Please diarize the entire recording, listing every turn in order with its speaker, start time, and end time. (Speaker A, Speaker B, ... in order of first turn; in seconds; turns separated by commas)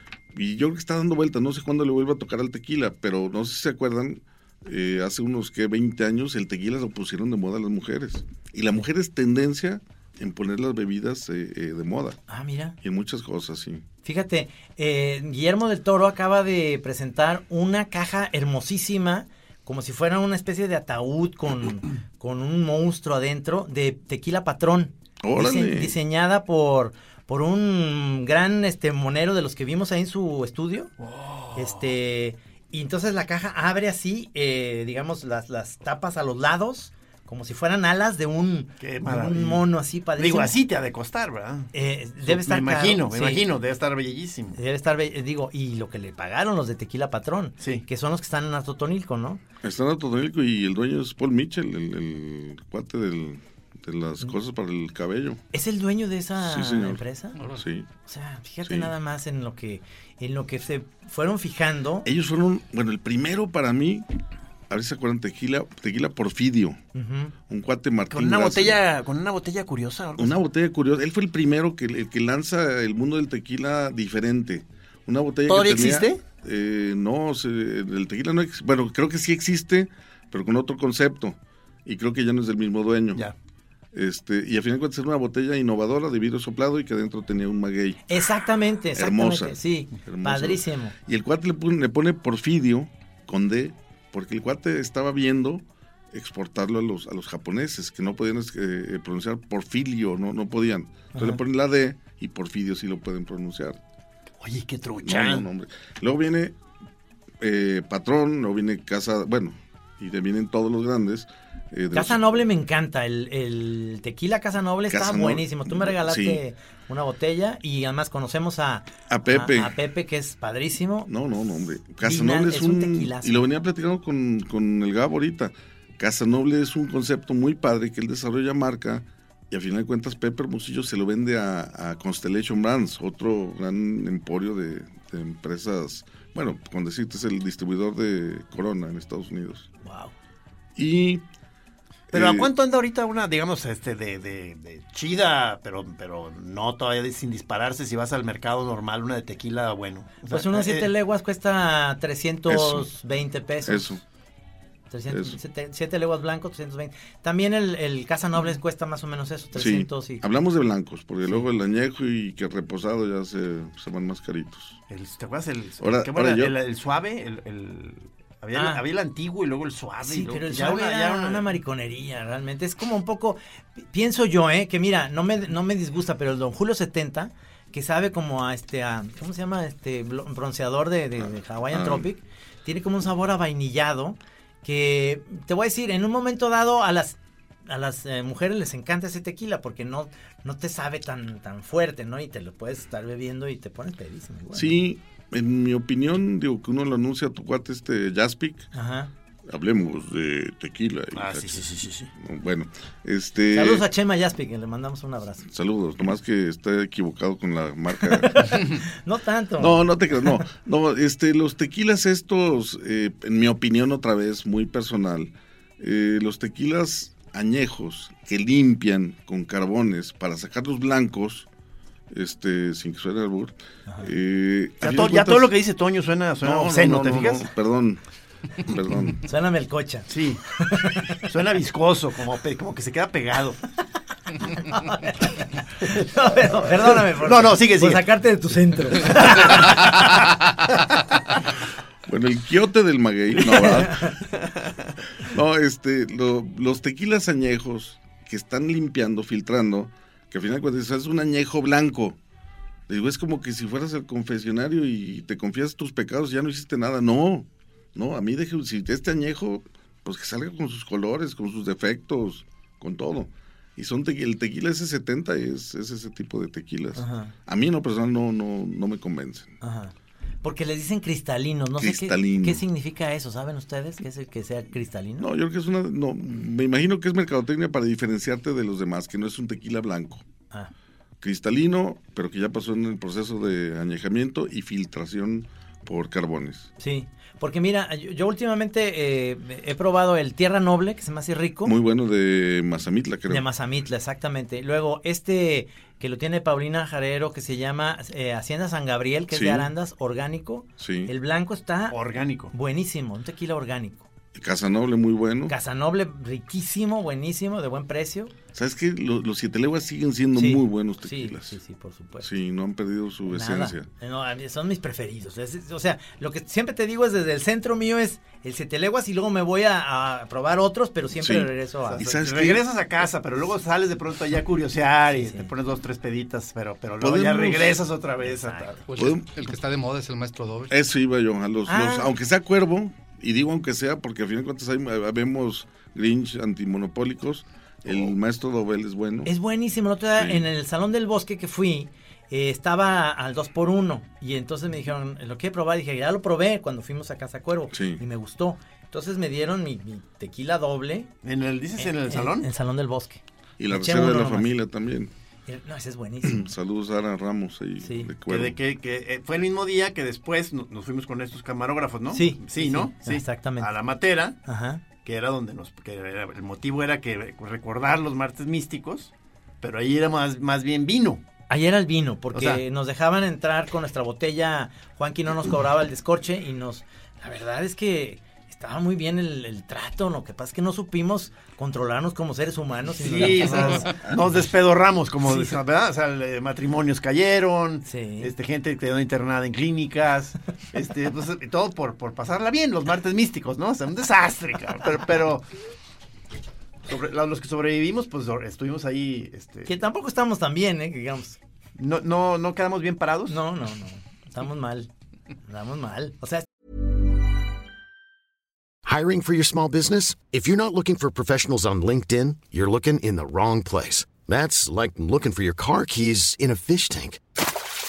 Speaker A: 0.3-12.2, Speaker B: 12.3-12.8, Speaker A: 12.8-13.8, Speaker B: 14.0-30.9, Speaker A: 25.2-26.0, Speaker C: 31.0-31.9, Speaker B: 31.6-40.5, Speaker C: 38.8-39.6, Speaker C: 40.2-41.7, Speaker B: 41.7-43.4, Speaker C: 42.2-44.6, Speaker B: 44.5-49.4, Speaker C: 47.6-47.9, Speaker A: 49.6-55.4, Speaker B: 55.5-57.4, Speaker A: 56.4-57.9, Speaker D: 57.4-57.6, Speaker B: 58.1-62.1, Speaker A: 58.6-58.9, Speaker A: 62.0-64.1, Speaker A: 64.7-66.8, Speaker B: 66.9-67.3, Speaker A: 67.5-68.8, Speaker C: 68.1-70.4, Speaker A: 70.2-83.2, Speaker C: 75.5-76.2, Speaker A: 83.9-88.0, Speaker B: 88.1-91.0, Speaker A: 89.0-103.8, Speaker B: 101.1-101.4, Speaker C: 104.4-105.5, Speaker A: 105.0-106.6, Speaker A: 107.4-112.3, Speaker B: 111.9-121.1, Speaker A: 114.9-116.4, Speaker A: 119.1-119.8, Speaker A: 121.1-139.7, Speaker B: 122.0-123.5, Speaker B: 139.8-140.1, Speaker A: 140.8-141.2, Speaker A: 142.1-142.5, Speaker C: 142.1-150.9, Speaker B: 150.3-153.9, Speaker A: 152.5-152.9, Speaker A: 153.7-154.0, Speaker B: 154.9-160.3, Speaker A: 155.1-155.4, Speaker A: 159.6-164.8, Speaker C: 164.9-171.5, Speaker A: 165.8-166.6, Speaker B: 168.5-168.8, Speaker B: 170.1-194.8, Speaker A: 181.7-182.1, Speaker A: 194.5-198.7, Speaker B: 198.7-199.1, Speaker A: 199.5-203.9, Speaker C: 201.1-202.1, Speaker B: 203.5-205.5, Speaker A: 205.4-208.4, Speaker B: 208.2-209.8, Speaker A: 209.6-221.5, Speaker A: 222.1-225.5, Speaker C: 224.8-227.5, Speaker A: 226.4-228.0, Speaker A: 228.6-229.2, Speaker B: 229.2-231.2, Speaker C: 230.1-230.4, Speaker C: 231.2-233.6, Speaker B: 234.6-240.0, Speaker C: 237.1-238.1, Speaker C: 239.2-240.2, Speaker A: 242.1-244.1, Speaker C: 244.4-244.8, Speaker A: 245.2-252.2, Speaker A: 252.9-269.5, Speaker B: 267.0-267.3, Speaker B: 269.6-275.3, Speaker A: 271.8-272.6, Speaker A: 275.2-280.2, Speaker A: 281.2-286.7, Speaker B: 286.8-291.7, Speaker A: 291.6-293.5, Speaker B: 293.3-302.0, Speaker A: 299.3-299.7, Speaker A: 300.8-301.1, Speaker C: 301.9-302.5, Speaker B: 302.5-304.1, Speaker A: 304.3-305.6, Speaker B: 305.5-308.3, Speaker A: 308.5-311.6, Speaker B: 310.4-312.3, Speaker A: 312.2-313.9, Speaker B: 313.3-322.0, Speaker A: 321.2-322.7, Speaker C: 321.9-328.9, Speaker B: 325.1-325.5, Speaker A: 327.0-327.9, Speaker B: 328.2-328.7, Speaker D: 328.9-330.7, Speaker A: 329.0-329.3, Speaker A: 330.7-339.3, Speaker B: 331.7-332.1, Speaker B: 339.2-351.1, Speaker A: 340.2-340.4, Speaker A: 347.7-348.0, Speaker C: 351.2-352.5, Speaker B: 351.8-354.5, Speaker A: 353.6-355.1, Speaker B: 355.5-356.5, Speaker A: 356.2-358.6, Speaker B: 357.8-358.1, Speaker C: 358.3-364.4, Speaker B: 362.1-363.7, Speaker B: 364.4-364.8, Speaker C: 365.0-371.2, Speaker B: 371.5-384.1, Speaker C: 372.3-372.6, Speaker C: 383.0-395.4, Speaker B: 385.3-385.5, Speaker B: 387.9-388.3, Speaker C: 396.9-399.7, Speaker B: 399.7-401.4, Speaker C: 401.8-403.4, Speaker B: 403.3-404.9, Speaker B: 405.5-406.5, Speaker E: 408.9-417.2